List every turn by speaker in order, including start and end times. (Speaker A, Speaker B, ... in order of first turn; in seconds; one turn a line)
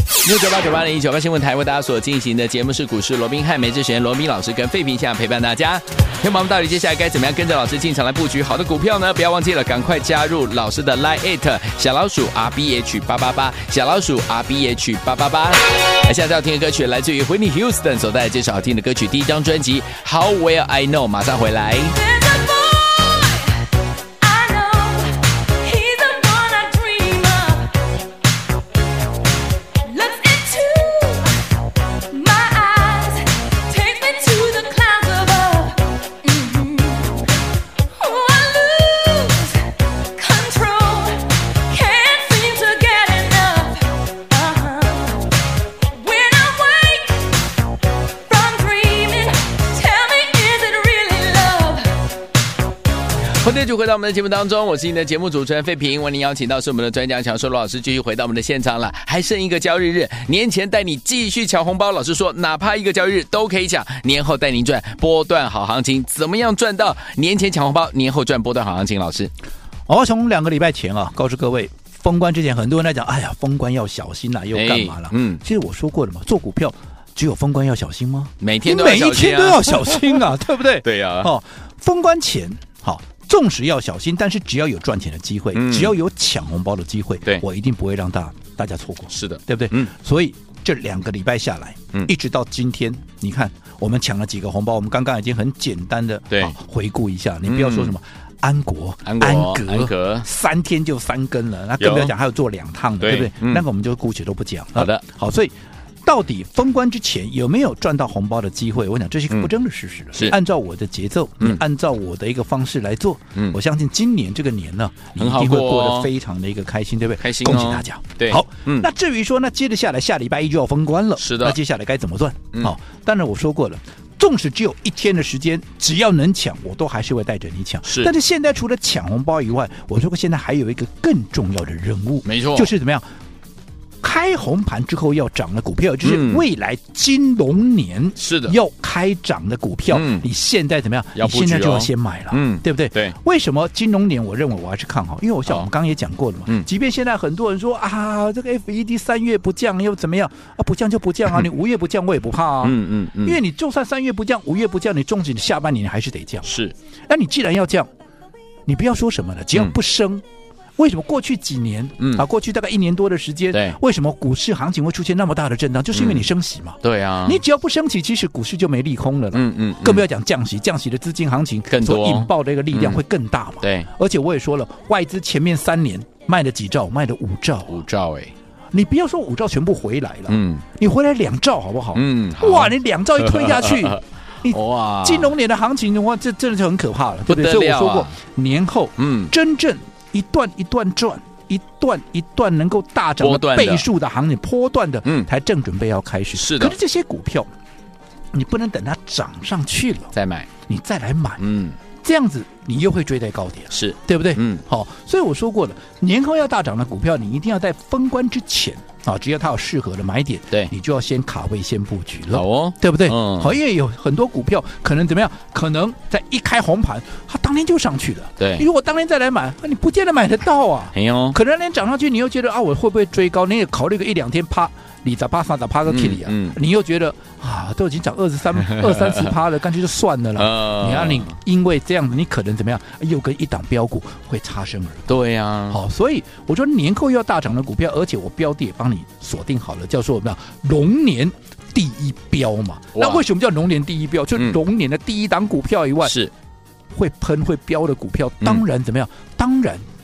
Speaker A: 0.2-22.0
Speaker B: 22.0-23.6
Speaker B: 24.2-27.8
Speaker B: 29.9-31.4
Speaker B: 32.1-37.2
Speaker B: 37.9-45.3
Speaker B: 45.9-47.3
Speaker B: 48.3-52.0
Speaker A: 53.3-69.3
Speaker C: 69.9-105.5
Speaker A: 74.5-75.4
Speaker A: 78.4-80.3
Speaker A: 80.8-81.3
Speaker A: 85.5-86.0
Speaker A: 89.1-89.9
Speaker A: 97.5-97.9
Speaker A: 99.0-100.3
Speaker A: 101.8-102.1
Speaker A: 103.0-103.6
Speaker A: 104.8-105.0
Speaker C: 106.0-133.1
Speaker A: 115.2-116.1
Speaker A: 117.2-118.9
Speaker A: 121.2-121.6
Speaker A: 127.8-128.1
Speaker A: 132.2-132.7
Speaker C: 134.0-156.5
Speaker A: 136.0-136.4
Speaker A: 138.2-138.6
Speaker A: 139.9-140.3
Speaker A: 141.2-143.2
Speaker A: 152.6-153.4
Speaker A: 156.4-156.8
Speaker C: 157.1-157.9
Speaker C: 158.7-160.2
Speaker C: 160.8-177.8
Speaker A: 162.0-162.2
Speaker A: 163.5-163.8
Speaker A: 165.9-166.3
Speaker A: 166.8-167.4
Speaker A: 169.3-170.1
Speaker A: 171.7-173.0
Speaker A: 173.6-173.9
Speaker A: 177.7-178.3
Speaker C: 178.7-197.5
Speaker A: 180.3-180.7
Speaker A: 181.9-185.3
Speaker A: 187.3-188.2
Speaker A: 189.0-189.3
Speaker A: 193.2-193.9
Speaker A: 196.4-196.8
Speaker C: 198.3-200.1
Speaker A: 200.1-200.5
Speaker C: 200.7-201.4
Speaker A: 201.4-201.8
Speaker C: 202.0-235.1
Speaker A: 203.7-204.6
Speaker A: 212.3-213.6
Speaker A: 218.4-218.7
Speaker A: 220.9-221.4
Speaker A: 225.9-226.6
Speaker A: 228.7-229.3
Speaker A: 230.4-231.3
Speaker A: 235.1-235.8
Speaker C: 235.7-246.2
Speaker A: 242.9-243.2
Speaker A: 246.0-246.3
Speaker C: 246.9-249.8